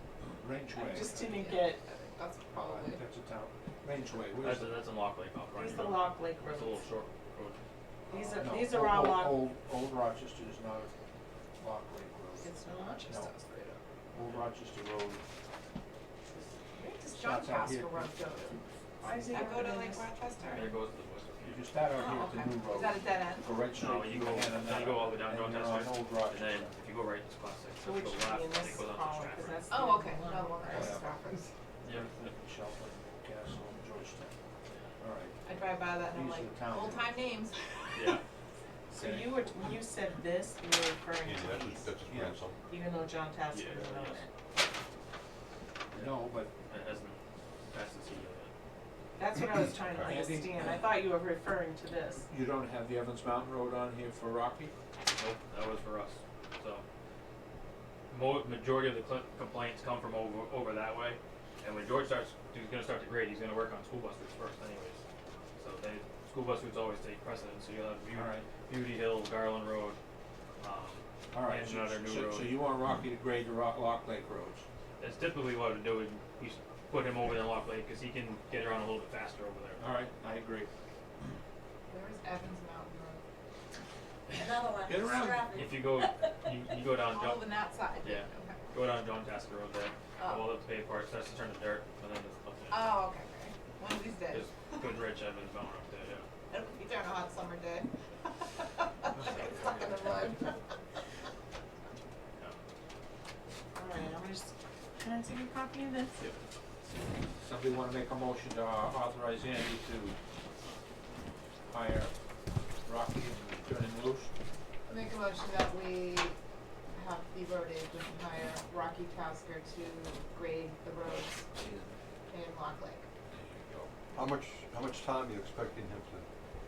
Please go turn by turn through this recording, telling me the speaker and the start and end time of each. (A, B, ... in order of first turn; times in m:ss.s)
0:00.4-0:01.1 A
0:00.7-0:01.8 B
0:00.9-0:03.0 C
0:02.5-0:04.8 A
0:04.4-0:07.6 D
0:05.5-0:06.8 B
0:08.1-0:09.4 B
0:08.1-0:10.9 A
0:11.6-0:12.6 A
0:12.4-0:13.8 B
0:12.7-0:13.5 C
0:14.1-0:15.2 A
0:14.2-0:14.5 D
0:16.8-0:18.7 C
0:17.1-0:19.7 A
0:19.0-0:20.7 B
0:19.3-0:20.7 C
0:20.5-0:21.7 D
0:21.4-0:26.7 A
0:21.9-0:23.4 C
0:23.7-0:29.8 D
0:27.8-0:30.9 B
0:29.7-0:31.5 C
0:30.6-0:31.1 A
0:31.8-0:32.2 D
0:31.8-0:34.3 A
0:35.0-0:35.4 A
0:35.4-0:37.7 C
0:36.0-0:37.2 A
0:37.9-0:38.2 D
0:38.9-0:41.9 B
0:39.0-0:39.3 A
0:41.2-0:42.6 E
0:42.1-0:42.4 A
0:42.7-0:44.3 B
0:43.5-0:44.2 D
0:45.9-0:46.5 A
0:46.7-0:48.5 D
0:49.2-0:52.3 B
0:50.0-0:50.5 A
0:52.3-0:54.7 A
0:55.2-0:56.8 D
0:58.1-1:05.0 D
1:05.6-1:10.0 D
1:08.1-1:08.4 A
1:10.6-1:12.5 D
1:11.3-1:14.6 A
1:15.0-1:19.8 D
1:19.8-1:20.7 A
1:21.9-1:23.2 C
1:24.3-1:26.1 C
1:24.8-1:25.5 A
1:25.5-1:27.5 D
1:27.0-1:28.6 C
1:28.0-1:32.9 D
1:30.2-1:30.5 C
1:32.7-1:34.9 C
1:34.3-1:36.3 D
1:36.5-1:40.6 C
1:39.2-1:39.9 A
1:39.2-1:40.2 D
1:43.7-1:46.2 B
1:47.4-1:50.2 A
1:51.7-1:52.1 A
1:52.8-1:54.3 A
1:54.9-1:56.3 C
1:56.9-2:01.6 C
2:01.6-2:01.9 A
2:02.3-2:03.0 C
2:03.3-2:03.9 A
2:04.1-2:06.2 E